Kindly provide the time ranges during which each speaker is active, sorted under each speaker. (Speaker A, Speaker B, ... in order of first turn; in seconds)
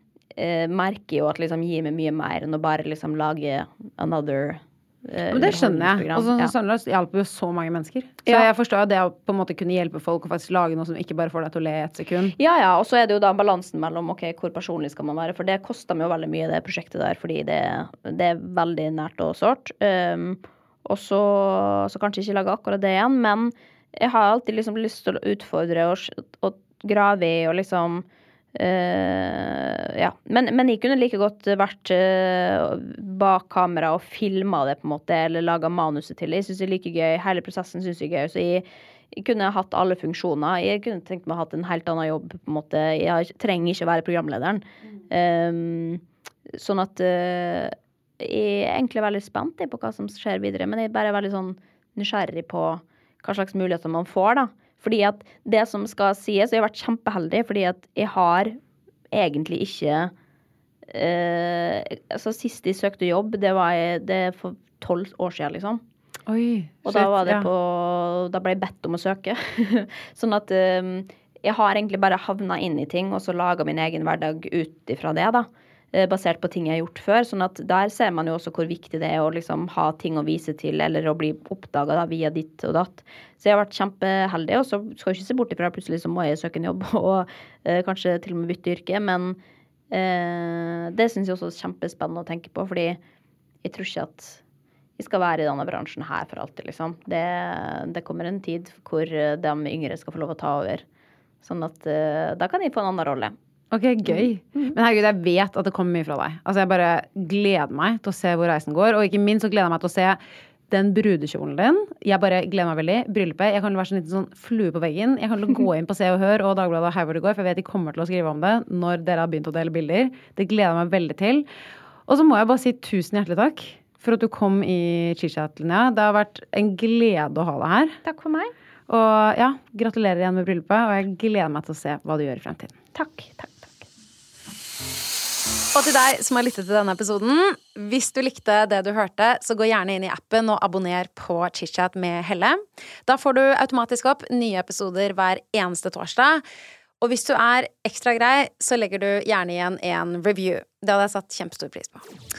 Speaker A: 0.4-6.5, 12.4-28.0, 28.6-58.6, 59.1-60.1, 60.9-65.8, 66.8-89.4, 89.9-93.0, 93.6-94.4, 95.0-100.8, 101.4-103.3, 104.1-104.7, 128.0-128.5, 132.9-133.9
Speaker B: 5.3-12.3, 66.3-67.5, 103.7-121.5, 122.1-128.0, 128.9-132.8, 135.7-146.4, 147.0-152.1